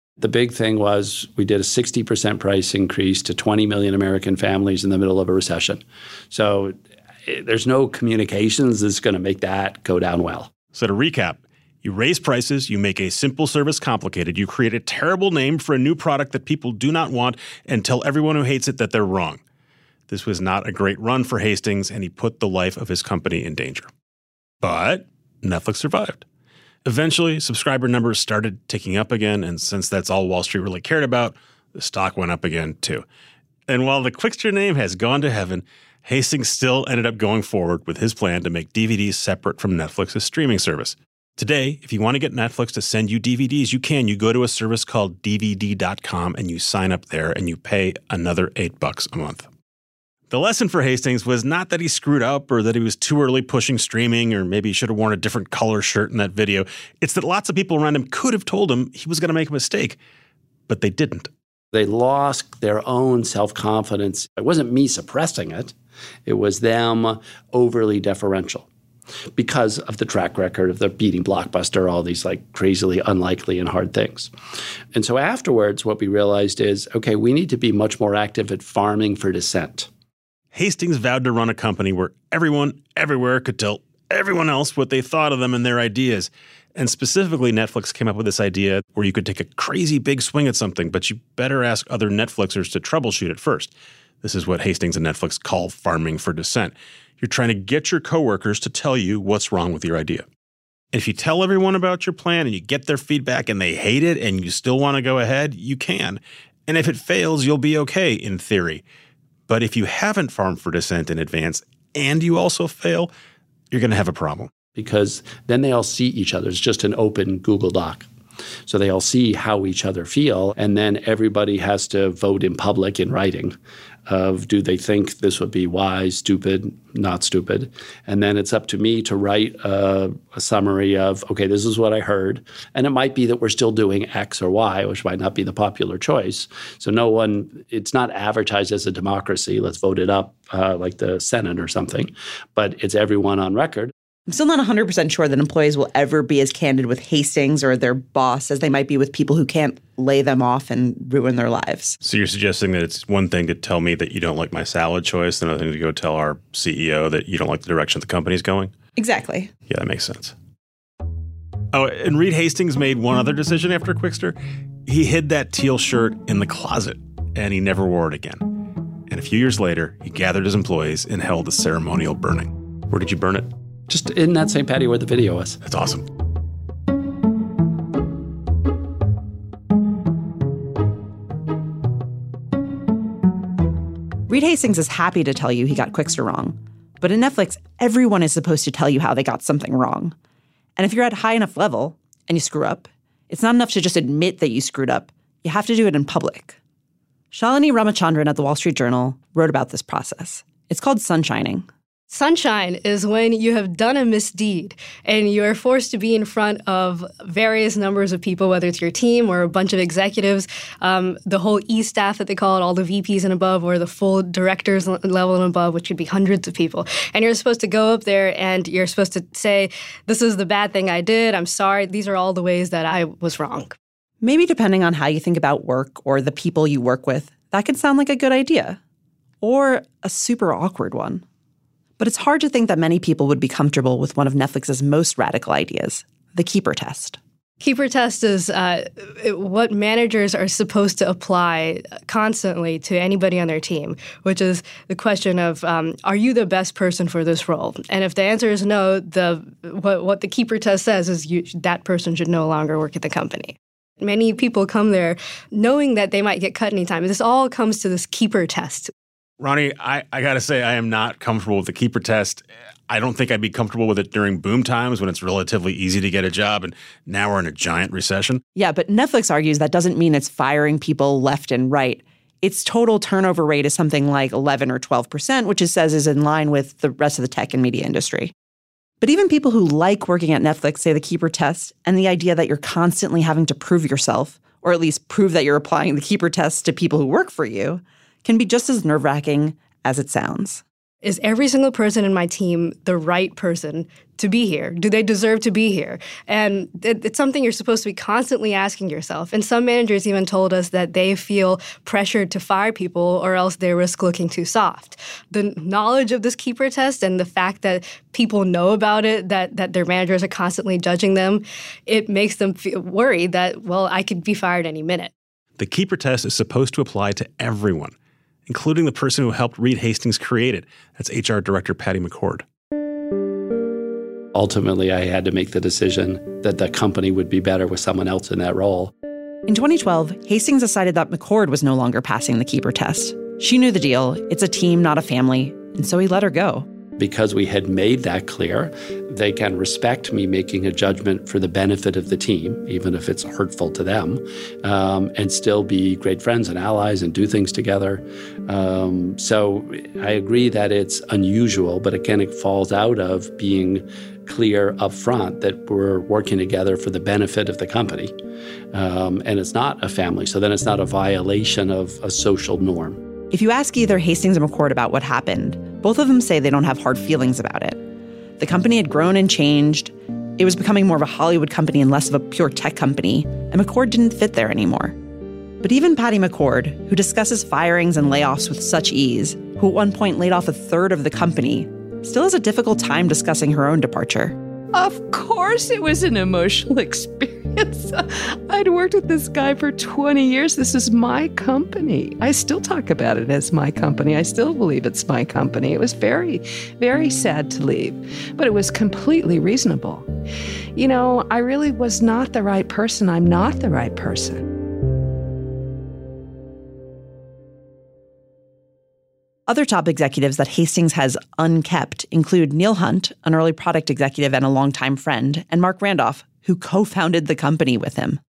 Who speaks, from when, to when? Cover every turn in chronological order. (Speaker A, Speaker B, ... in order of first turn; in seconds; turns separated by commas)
Speaker A: 0.2-10.5, Speaker B: 10.7-19.4, Speaker B: 20.1-23.9, Speaker B: 24.6-26.2, Speaker B: 26.8-33.0, Speaker B: 33.7-49.5, Speaker B: 50.3-60.0, Speaker B: 60.7-61.3, Speaker A: 61.7-65.7, Speaker A: 66.2-68.7, Speaker A: 69.4-74.3, Speaker A: 74.9-79.9, Speaker B: 80.5-100.2, Speaker B: 100.9-108.8, Speaker B: 109.5-113.1, Speaker B: 113.7-114.5, Speaker A: 114.8-118.0, Speaker A: 118.7-123.5, Speaker A: 124.1-143.9, Speaker C: 144.3-152.0, Speaker B: 152.0-158.7, Speaker C: 159.0-159.5, Speaker B: 159.7-160.3, Speaker B: 161.7-168.5, Speaker B: 169.1-173.5, Speaker A: 173.9-175.6, Speaker B: 175.6-176.1, Speaker C: 184.3-190.1, Speaker C: 190.8-196.6, Speaker C: 197.3-201.7, Speaker D: 202.1-223.7, Speaker C: 224.2-228.8, Speaker C: 229.4-231.2, Speaker C: 232.0-237.2, Speaker D: 237.6-258.9, Speaker B: 259.4-268.4, Speaker C: 268.6-278.3, Speaker C: 279.0-290.6, Speaker D: 291.0-315.1, Speaker B: 315.6-317.9, Speaker B: 318.5-322.4, Speaker A: 324.3-328.9, Speaker C: 329.5-336.7, Speaker A: 337.0-358.1, Speaker A: 358.7-363.0, Speaker C: 363.3-367.8, Speaker C: 368.4-374.9, Speaker C: 375.6-384.4, Speaker E: 384.7-400.1, Speaker E: 400.7-404.5, Speaker C: 409.5-418.2